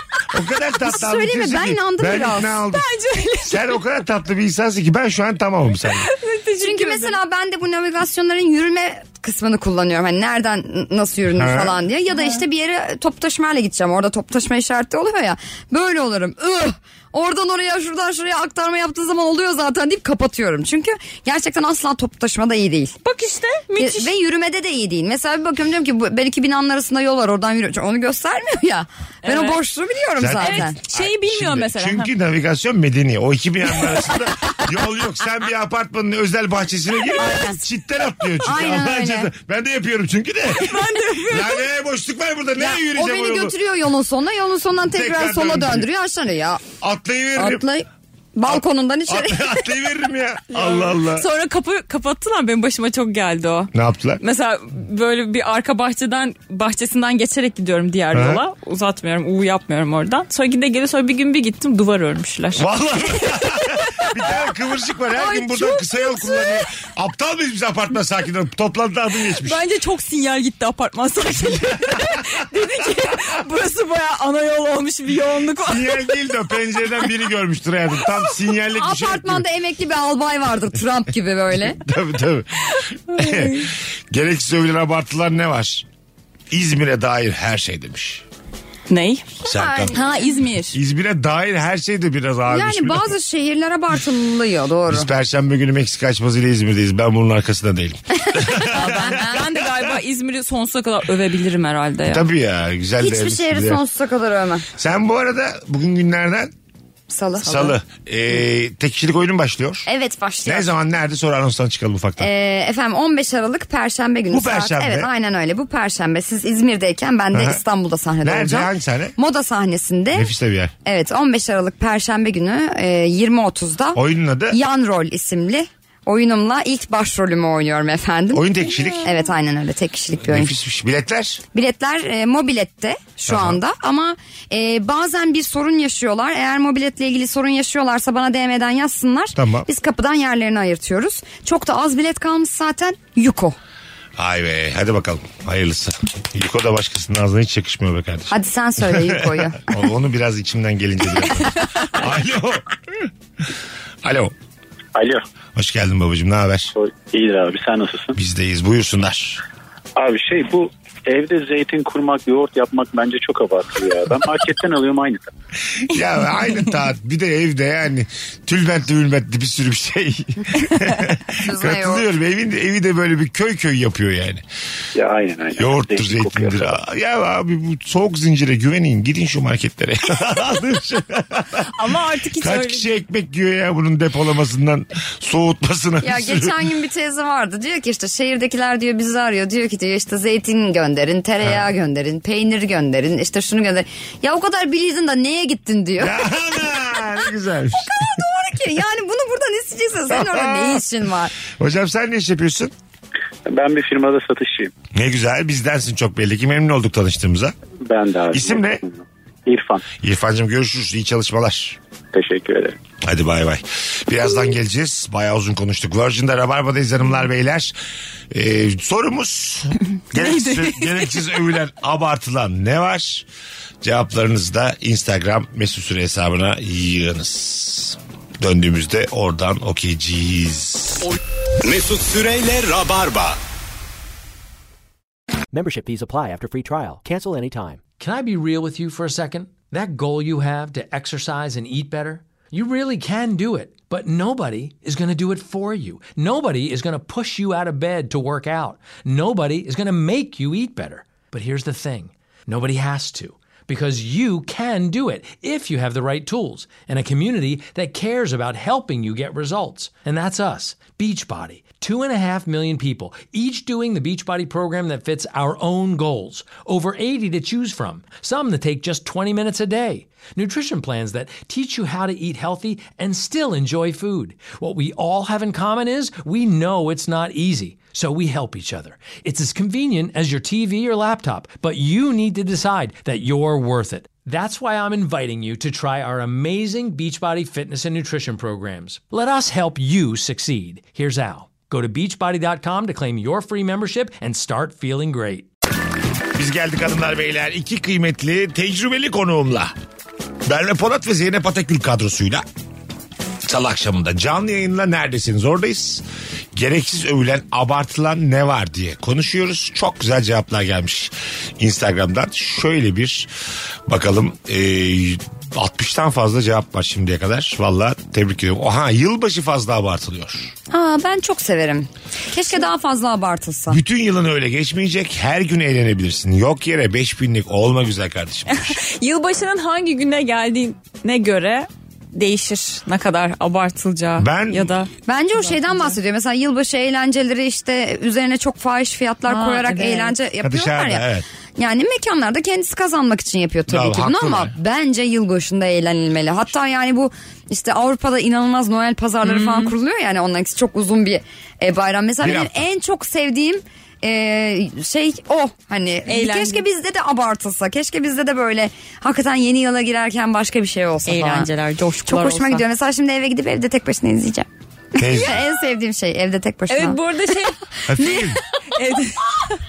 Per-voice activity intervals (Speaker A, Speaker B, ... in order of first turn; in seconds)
Speaker A: 0.3-2.9, 3.5-6.1, 11.3-11.8, 30.2-43.5, 44.9-45.9, 46.8-47.6, 48.5-51.3, 53.7-54.2, 58.1-58.4, 62.5-69.6, 71.7-72.2, 75.6-79.5, 81.7-85.8, 86.5-88.2, 89.4-90.0, 90.7-93.1, 94.9-99.9, 102.0-103.8, 104.8-106.5, 107.4-109.9, 110.4-112.3, 114.3-115.1, 117.3-117.6, 118.2-119.2, 120.1-120.7, 123.9-124.6, 128.3-129.1, 130.2-131.4, 133.3-133.6, 139.3-139.7, 144.2-153.1, 154.0-154.3, 155.5-156.7, 158.1-159.4, 165.7-174.4, 175.6-181.7, 182.4-186.6, 191.4-191.7, 196.0-198.0, 200.1-200.8, 201.5-202.7, 204.9-207.5, 208.3-208.8, 210.0-211.8, 213.0-217.7, 218.3-223.2, 223.8-231.1, 296.3-299.7, 300.4-302.4, 303.4-306.0, 306.5-313.3, 313.9-320.5, 323.7-328.8, 334.2-334.8, 340.4-341.2, 343.7-344.5, 352.2-352.6, 365.0-365.4, 367.9-368.4
Speaker B: 0.8-2.6, 6.6-22.9, 23.8-30.8, 37.1-37.6, 38.4-39.3, 42.6-46.6, 47.4-49.7, 78.7-81.8, 89.4-90.1, 92.5-95.1, 98.3-99.3, 103.0-104.7, 107.1-107.7, 109.8-110.7, 112.2-120.3, 120.8-128.5, 129.0-130.5, 131.5-143.6, 148.3-149.7, 171.4-172.0, 186.0-197.2, 197.8-201.3, 320.7-323.8, 335.1-341.0, 341.6-361.5, 362.1-367.0
Speaker C: 2.7-3.7, 6.0-7.2, 12.1-12.4, 23.0-24.1, 29.2-29.6, 30.4-32.1, 40.5-41.6, 50.5-64.3, 65.2-66.2, 69.3-76.1, 83.1-83.7, 88.9-89.3, 89.9-90.8, 98.7-102.2, 181.7-182.9, 220.1-221.2, 328.5-336.0, 339.3-340.1, 349.2-349.7, 356.1-356.6, 361.1-362.6, 366.7-369.6
Speaker D: 154.9-155.2, 156.8-158.2, 160.0-165.3, 174.9-176.8, 203.5-204.7, 207.8-209.8, 212.1-212.8
Speaker E: 231.1-233.4
Speaker F: 235.5-237.8
Speaker G: 238.0-295.5